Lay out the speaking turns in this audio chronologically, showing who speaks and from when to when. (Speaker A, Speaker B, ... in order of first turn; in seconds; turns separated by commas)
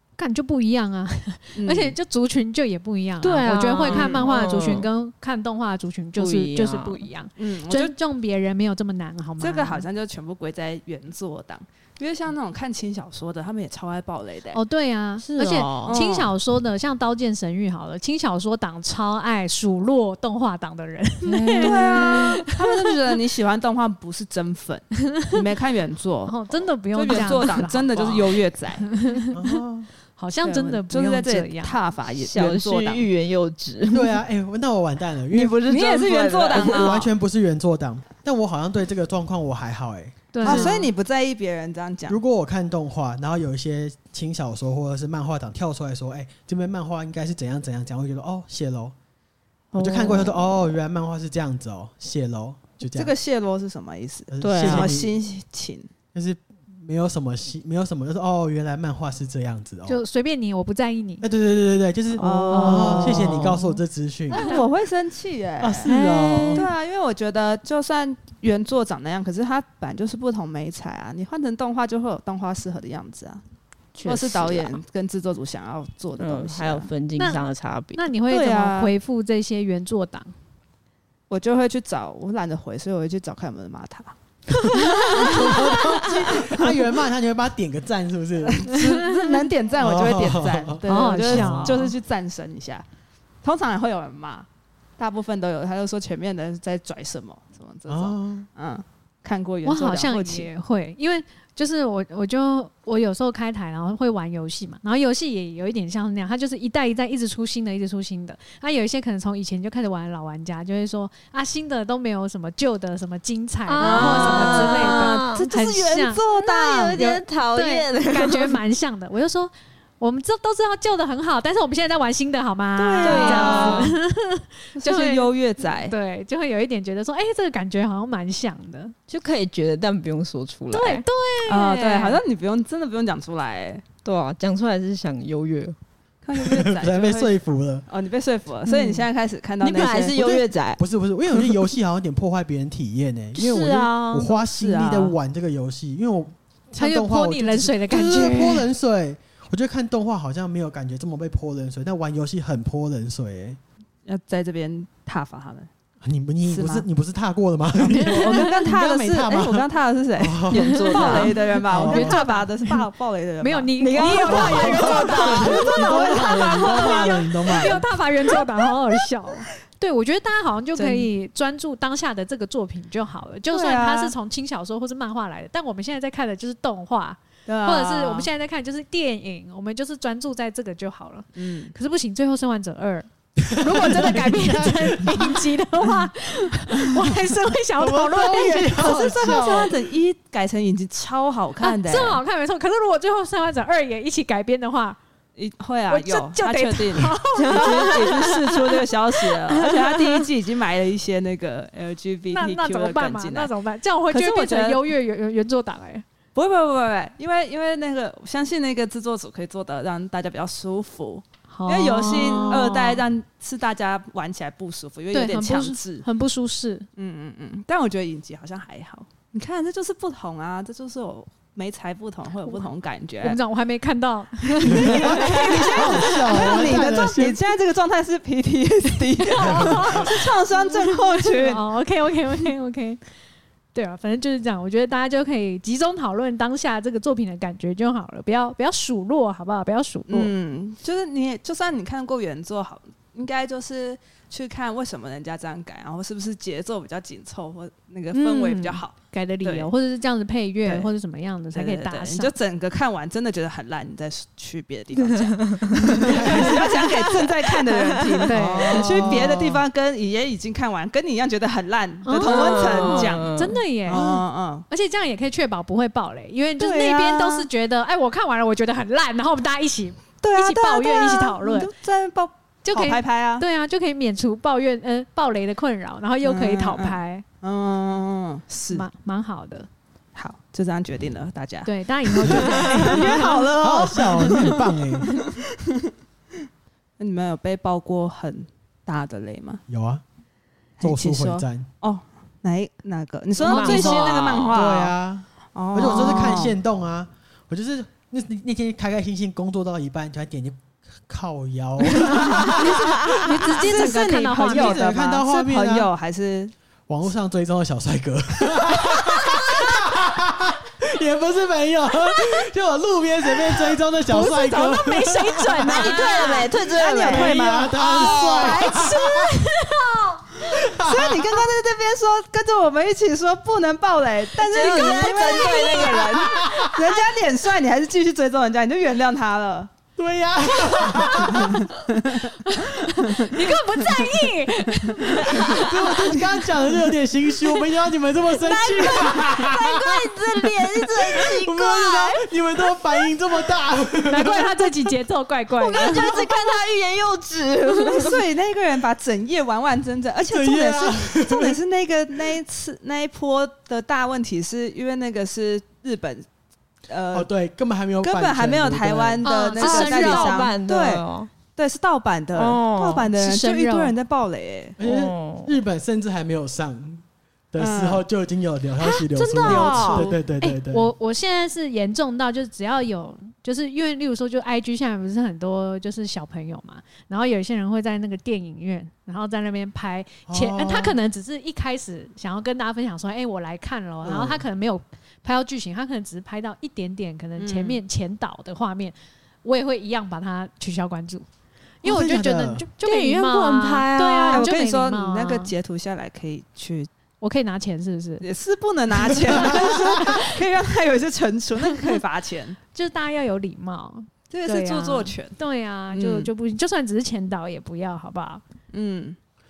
Speaker A: 0.2-9.8, Speaker B: 1.6-1.9, Speaker C: 3.2-4.9, Speaker B: 3.8-4.3, Speaker C: 6.2-7.1, Speaker B: 7.4-7.9, Speaker B: 9.4-14.6, Speaker A: 14.5-22.9, Speaker C: 15.2-16.0, Speaker B: 15.8-16.3, Speaker C: 21.2-22.4, Speaker B: 21.6-26.3, Speaker A: 26.3-29.6, Speaker B: 26.9-28.9, Speaker D: 29.3-29.9, Speaker A: 30.2-31.8, Speaker B: 30.4-33.1, Speaker C: 32.2-34.2, Speaker D: 33.9-35.6, Speaker C: 35.3-37.0, Speaker B: 35.7-37.1, Speaker D: 36.5-40.7, Speaker A: 40.3-40.9, Speaker B: 40.4-42.2, Speaker D: 42.1-48.9, Speaker C: 49.7-50.6, Speaker D: 49.8-53.1, Speaker B: 52.8-55.9, Speaker D: 54.3-55.1, Speaker C: 54.4-54.9, Speaker D: 56.1-60.0, Speaker A: 59.9-61.2, Speaker D: 61.2-64.5, Speaker B: 62.1-63.5, Speaker C: 62.2-63.6, Speaker A: 62.5-63.5, Speaker B: 64.3-65.9, Speaker A: 64.3-64.6, Speaker D: 65.6-66.7, Speaker C: 65.9-66.6, Speaker B: 66.5-73.4, Speaker C: 74.0-74.8, Speaker B: 74.0-76.9, Speaker C: 76.2-78.0, Speaker A: 77.2-80.3, Speaker B: 78.3-78.9, Speaker B: 81.3-84.1, Speaker C: 84.7-86.4, Speaker D: 84.8-88.7, Speaker B: 88.4-92.8, Speaker A: 88.7-89.3, Speaker D: 89.8-91.8, Speaker A: 90.8-91.9, Speaker B: 93.4-94.5, Speaker B: 95.0-100.5, Speaker D: 97.9-98.5, Speaker A: 99.6-116.2, Speaker C: 113.7-115.4, Speaker B: 113.8-117.2, Speaker C: 116.3-118.6, Speaker A: 116.9-128.9, Speaker B: 122.8-123.9, Speaker C: 123.0-123.9, Speaker B: 124.8-125.9, Speaker C: 129.1-131.0, Speaker A: 130.7-132.2, Speaker B: 131.4-133.8, Speaker C: 134.0-135.8, Speaker B: 136.2-140.4, Speaker D: 136.3-137.8, Speaker A: 138.7-139.0, Speaker C: 139.6-141.6, Speaker D: 140.2-153.6, Speaker C: 143.3-144.3, Speaker B: 144.4-145.2, Speaker A: 146.8-148.7, Speaker B: 154.1-155.7, Speaker D: 156.0-159.7, Speaker B: 156.5-156.8, Speaker B: 157.8-164.1, Speaker A: 157.8-158.6, Speaker D: 160.2-162.2, Speaker C: 160.5-161.3, Speaker A: 161.8-162.8, Speaker A: 163.4-189.7, Speaker C: 163.8-166.3, Speaker D: 164.3-167.8, Speaker B: 166.7-167.0, Speaker B: 170.7-171.1, Speaker B: 173.5-174.1, Speaker B: 177.5-178.3, Speaker B: 181.3-181.7, Speaker D: 183.4-185.5, Speaker D: 187.8-189.8, Speaker B: 188.7-192.2, Speaker A: 191.6-195.0, Speaker B: 195.3-203.5, Speaker A: 195.9-198.2, Speaker C: 197.3-198.8, Speaker C: 199.3-200.2, Speaker A: 202.3-206.0, Speaker B: 204.1-204.8, Speaker B: 206.3-216.0, Speaker A: 211.5-213.0, Speaker A: 215.1-216.9, Speaker B: 216.9-223.4, Speaker A: 223.2-226.8, Speaker B: 224.6-231.6, Speaker D: 224.7-227.4, Speaker A: 229.2-233.0, Speaker D: 229.4-230.2, Speaker A: 233.7-240.3, Speaker B: 240.1-249.7, Speaker A: 248.1-252.3, Speaker B: 250.6-250.9, Speaker B: 251.5-263.3, Speaker C: 255.0-258.3, Speaker D: 256.0-256.8, Speaker A: 258.3-259.2, Speaker D: 258.3-259.6, Speaker A: 262.0-264.1, Speaker C: 262.2-263.6, Speaker B: 263.9-264.6, Speaker D: 263.9-264.2, Speaker A: 264.7-271.7, Speaker B: 266.6-267.5, Speaker B: 270.2-273.4, Speaker A: 272.6-277.2, Speaker B: 276.2-278.8, Speaker A: 278.7-279.7, Speaker B: 280.1-285.9, Speaker A: 281.6-283.2, Speaker D: 282.2-285.1, Speaker B: 287.0-289.6, Speaker D: 289.7-290.0, Speaker B: 290.8-294.9, Speaker D: 290.8-291.7, Speaker C: 293.4-294.5, Speaker A: 293.5-294.5, Speaker D: 294.5-303.1, Speaker B: 295.5-296.6, Speaker A: 302.5-304.8, Speaker B: 303.5-306.5, Speaker D: 304.5-305.9, Speaker D: 306.9-315.9, Speaker A: 314.1-316.5, Speaker C: 315.6-318.9, Speaker B: 315.9-318.5, Speaker D: 317.0-319.3, Speaker A: 318.3-320.4, Speaker D: 320.4-321.4, Speaker B: 320.7-329.7, Speaker C: 324.4-326.4, Speaker A: 324.6-325.9, Speaker D: 326.2-326.8, Speaker D: 330.0-331.6, Speaker A: 330.6-331.4, Speaker B: 331.3-332.3, Speaker A: 332.4-336.1, Speaker B: 332.9-334.1, Speaker D: 335.4-340.2, Speaker C: 338.3-342.2, Speaker D: 341.1-344.7, Speaker A: 344.0-346.2, Speaker C: 345.6-348.2, Speaker B: 347.7-356.2, Speaker D: 350.2-351.6, Speaker B: 356.9-357.3, Speaker D: 357.1-359.2, Speaker B: 358.0-364.8, Speaker A: 359.2-360.5, Speaker C: 359.6-361.3, Speaker C: 362.3-363.1, Speaker A: 363.2-363.9, Speaker D: 364.8-370.9, Speaker C: 364.8-365.5, Speaker B: 367.6-368.0, Speaker A: 368.8-391.2, Speaker C: 369.2-370.1, Speaker B: 369.7-370.1, Speaker D: 380.3-381.0, Speaker D: 384.0-384.4, Speaker B: 387.4-387.8, Speaker D: 391.8-392.6, Speaker A: 391.8-395.5, Speaker C: 392.8-394.5, Speaker B: 394.3-396.9, Speaker A: 397.2-398.2, Speaker B: 398.2-402.6, Speaker D: 399.5-399.9, Speaker A: 402.7-408.4, Speaker B: 404.3-405.4, Speaker B: 405.9-406.3, Speaker B: 408.7-409.2